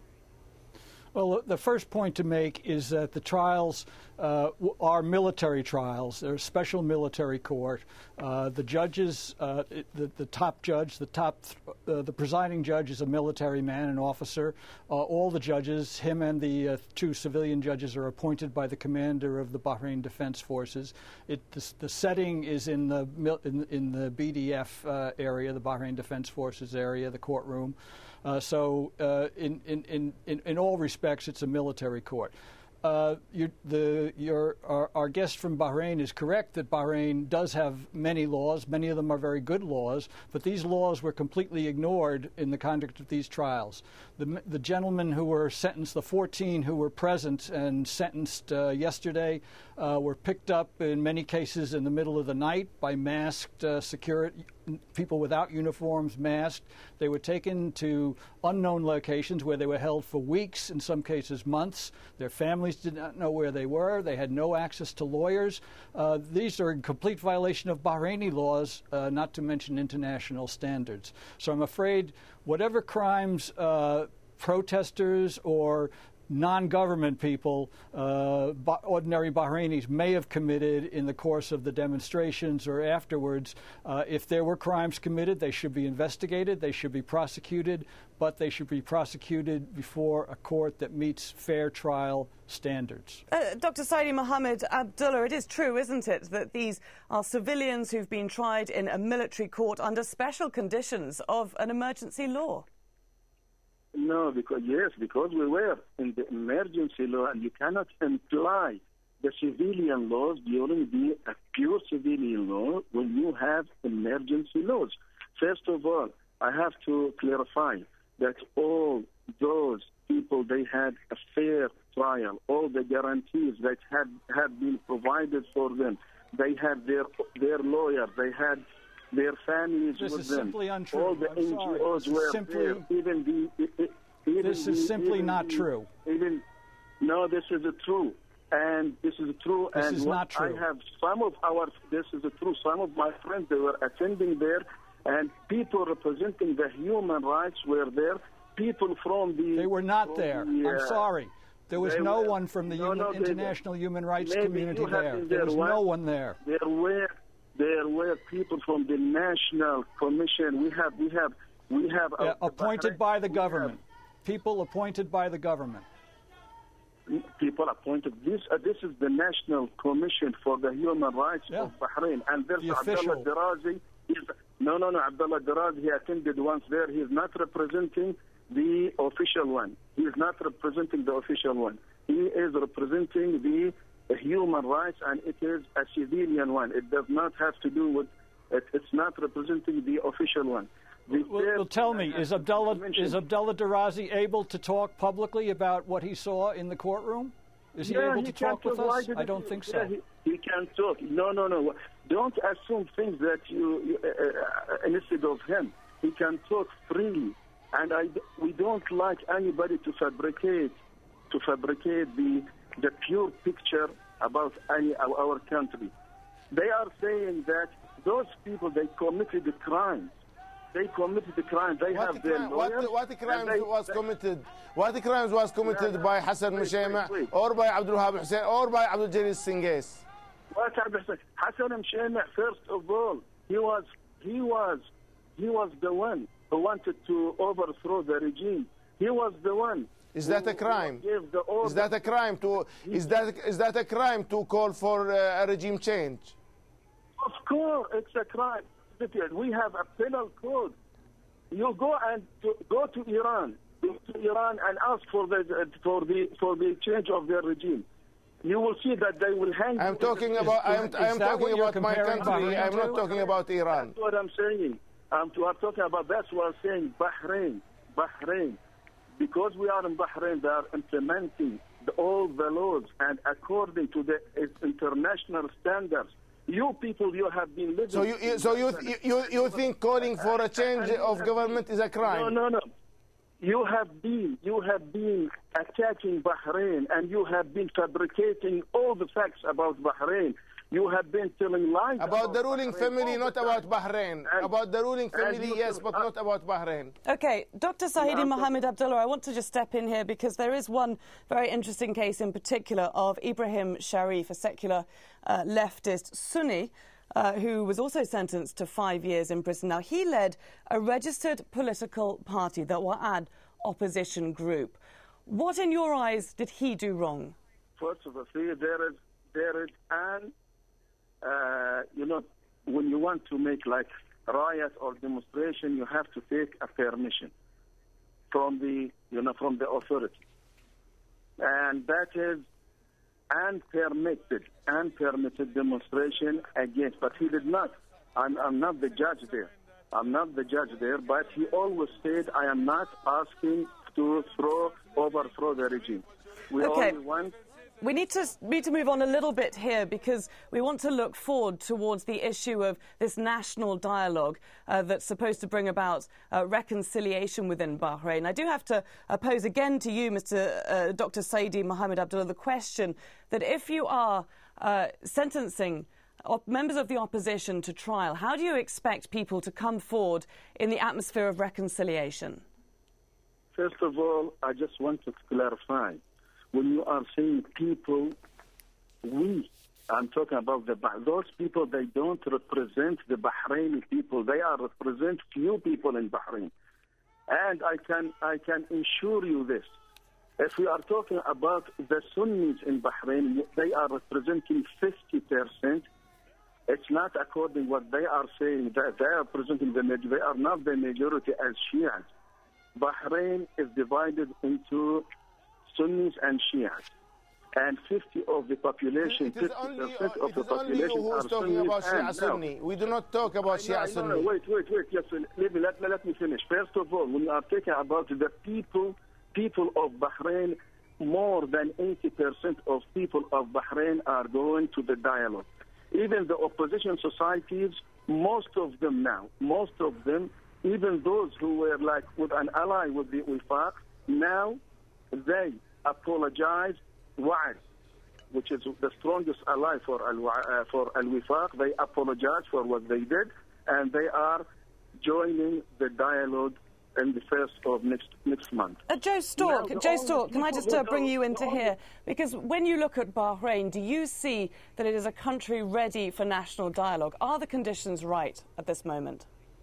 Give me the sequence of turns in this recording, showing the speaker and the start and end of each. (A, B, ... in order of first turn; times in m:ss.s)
0:01.1-1:33.2 A
1:33.3-1:42.6 B
1:43.9-2:16.4 C
2:10.0-2:12.8 A
2:14.4-2:15.9 A
2:17.0-2:31.0 C
2:19.7-2:20.6 A
2:29.5-2:36.4 A
2:31.8-2:33.6 C
2:34.2-2:35.8 C
2:36.4-2:43.7 C
2:42.2-2:45.8 A
2:47.1-3:13.2 C
2:52.6-2:53.2 A
3:11.1-3:19.9 A
3:17.8-3:30.8 C
3:31.3-3:35.9 C
3:36.5-3:40.1 C
3:40.7-3:43.9 C
3:41.9-3:50.0 D
3:45.6-3:47.3 C
3:50.5-3:54.8 C
3:55.4-4:01.9 C
4:00.1-4:01.0 D
4:01.6-4:06.3 D
4:02.8-4:03.2 C
4:07.2-4:10.8 C
4:11.5-4:17.9 C
4:18.4-4:20.9 C
4:19.8-4:23.9 D
4:20.4-4:23.0 A
4:22.2-4:28.6 C
4:29.2-4:38.9 C
4:37.9-4:42.4 D
4:40.2-4:42.7 C
4:43.4-4:53.6 C
4:52.0-4:56.9 D
4:55.1-4:56.0 C
4:57.0-5:17.4 B
4:58.0-4:58.6 C
5:17.8-5:20.3 C
5:21.2-5:27.3 C
5:28.3-5:30.2 C
5:31.4-5:32.4 C
5:33.3-5:47.3 C
5:46.6-5:47.0 B
5:47.8-6:12.4 B
6:13.5-6:16.0 C
6:16.5-6:18.1 C
6:19.0-6:26.5 C
6:27.3-6:29.7 C
6:30.4-6:35.9 C
6:36.7-6:42.0 C
6:42.8-6:45.1 C
6:45.7-6:46.9 C
6:47.5-6:52.4 C
6:49.0-6:54.3 D
6:53.4-7:14.6 C
7:15.1-7:17.6 C
7:18.3-7:24.4 C
7:25.0-7:28.8 C
7:28.9-7:39.3 B
7:29.4-7:31.7 C